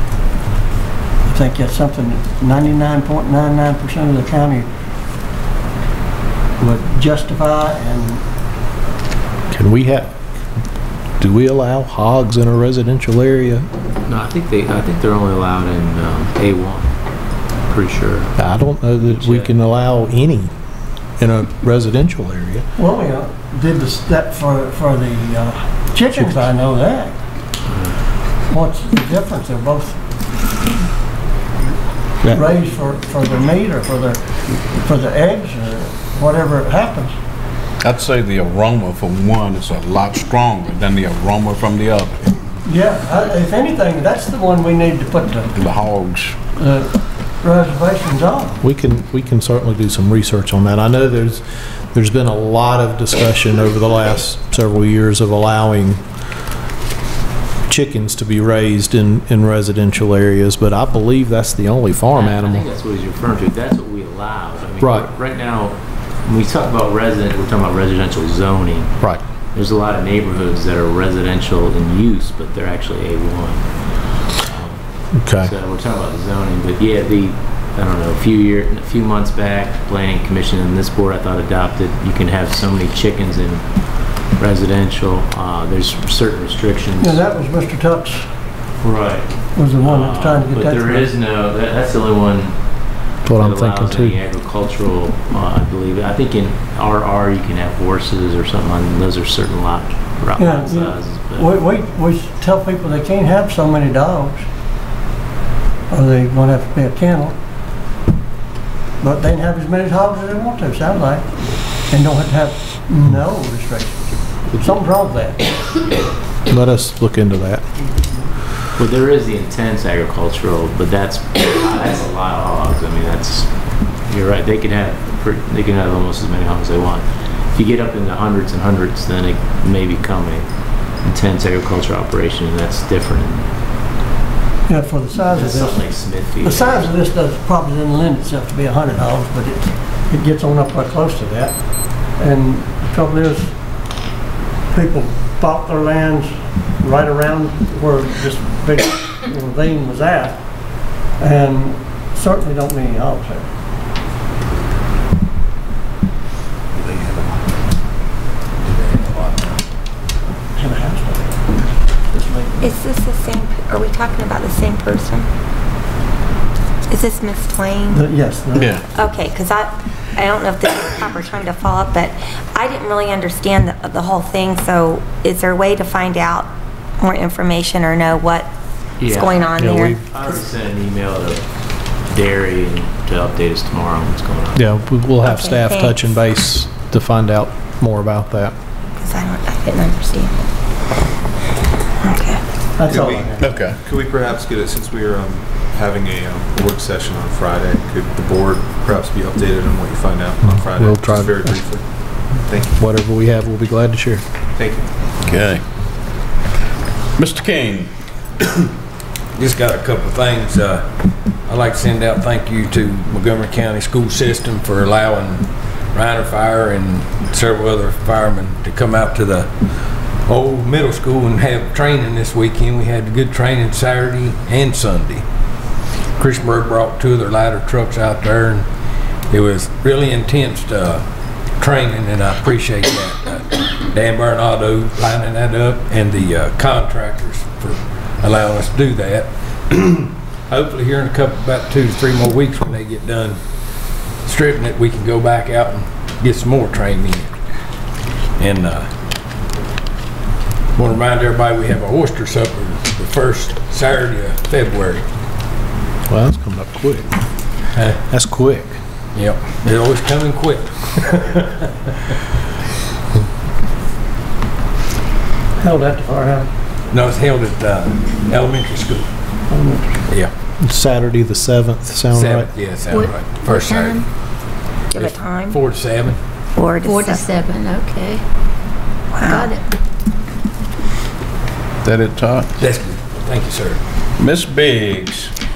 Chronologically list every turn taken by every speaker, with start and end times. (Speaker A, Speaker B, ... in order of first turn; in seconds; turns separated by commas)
Speaker A: 1.2-4.7, Speaker A: 6.6-8.2, Speaker B: 9.5-10.1, Speaker B: 11.2-13.7, Speaker C: 14.1-16.9, Speaker C: 17.7-18.4, Speaker B: 18.4-20.5, Speaker C: 19.1-19.5, Speaker B: 21.2-22.7, Speaker A: 22.8-27.2, Speaker B: 26.1-26.4, Speaker A: 28.5-30.0, Speaker A: 32.2-37.1, Speaker D: 37.8-42.2, Speaker A: 42.6-45.5, Speaker D: 45.6-46.3, Speaker A: 46.5-48.6, Speaker B: 48.6-56.0, Speaker B: 57.7-62.7, Speaker C: 62.1-68.9, Speaker B: 64.8-65.1, Speaker C: 69.5-73.7, Speaker C: 74.3-74.8, Speaker B: 75.2-75.5, Speaker C: 75.3-83.6, Speaker C: 84.4-87.2, Speaker A: 87.0-88.2, Speaker C: 88.8-92.5, Speaker A: 89.5-91.1, Speaker B: 93.2-94.2, Speaker C: 93.3-101.5, Speaker A: 100.4-104.4, Speaker A: 105.9-107.3, Speaker A: 109.0-111.3, Speaker A: 111.9-115.5, Speaker B: 116.5-117.6, Speaker C: 118.8-123.5, Speaker C: 124.1-130.5, Speaker C: 131.0-133.5, Speaker A: 134.7-135.8, Speaker C: 135.3-136.9, Speaker A: 136.4-141.6, Speaker A: 142.2-143.5, Speaker A: 144.7-150.4, Speaker A: 151.2-153.5, Speaker A: 160.6-162.7, Speaker E: 162.6-165.3, Speaker E: 166.9-168.0, Speaker A: 167.9-168.8, Speaker F: 168.6-168.8, Speaker E: 168.9-178.5, Speaker C: 179.0-181.4, Speaker E: 179.1-180.0, Speaker B: 179.6-180.0, Speaker C: 182.0-184.6, Speaker B: 184.5-188.5, Speaker E: 185.2-186.0, Speaker E: 189.0-190.4, Speaker E: 192.0-192.4, Speaker A: 192.8-193.5, Speaker F: 192.9-202.8, Speaker B: 200.4-201.6, Speaker B: 202.8-204.2, Speaker F: 204.6-205.6, Speaker F: 207.2-207.9, Speaker D: 207.2-207.8, Speaker G: 209.3-210.8, Speaker G: 211.5-219.5, Speaker G: 220.3-225.2, Speaker G: 226.2-228.7, Speaker G: 229.3-231.0, Speaker G: 231.6-243.4, Speaker G: 244.2-247.3, Speaker G: 248.4-248.9, Speaker G: 250.8-255.0, Speaker B: 256.1-257.1, Speaker B: 258.1-258.8, Speaker G: 259.1-262.1, Speaker A: 265.6-266.5, Speaker G: 266.9-269.1, Speaker A: 269.5-270.1, Speaker B: 270.6-272.5, Speaker G: 272.1-274.0, Speaker H: 273.5-274.0, Speaker E: 274.9-275.6, Speaker G: 274.9-276.2, Speaker E: 276.6-277.4, Speaker H: 276.8-278.2, Speaker E: 279.1-279.6, Speaker H: 279.3-279.6, Speaker D: 281.8-282.5, Speaker G: 282.6-283.8, Speaker D: 284.2-285.3